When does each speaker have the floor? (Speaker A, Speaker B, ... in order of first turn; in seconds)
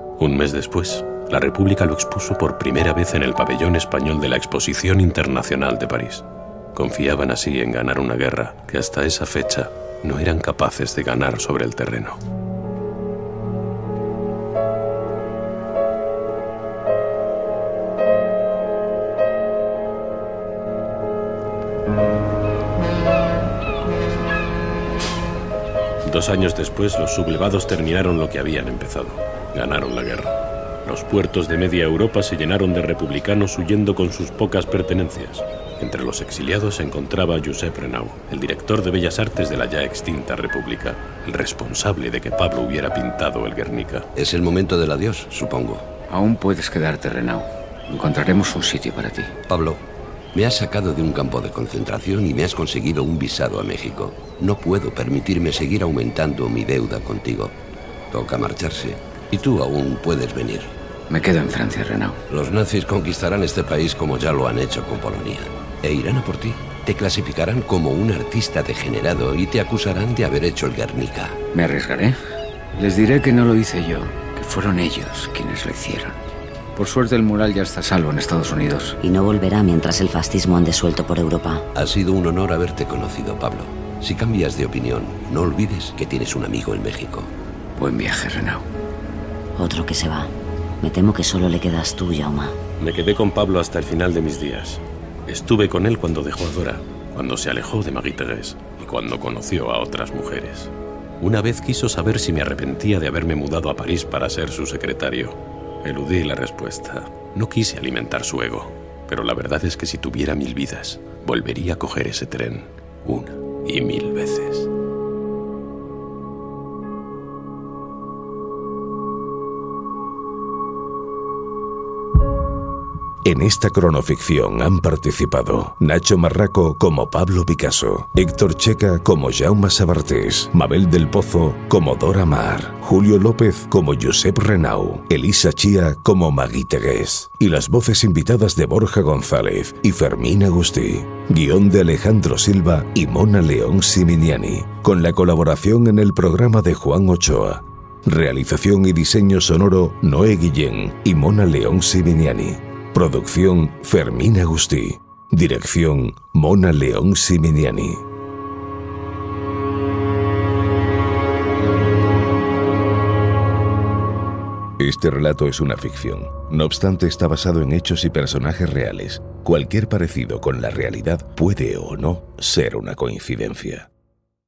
Speaker A: 0.2-12.2, 26.0-44.0, 92.8-114.7
Speaker B: 44.1-45.9, 49.5-49.8, 50.3-57.5, 58.1-60.7, 62.3-71.4, 81.7-87.3
Speaker C: 46.1-49.3, 61.1-62.2, 71.5-72.2, 72.7-76.2, 76.7-79.0, 87.8-88.7
Speaker D: 79.0-81.7, 89.6-92.6
Speaker E: 123.2-158.0, 164.8-173.9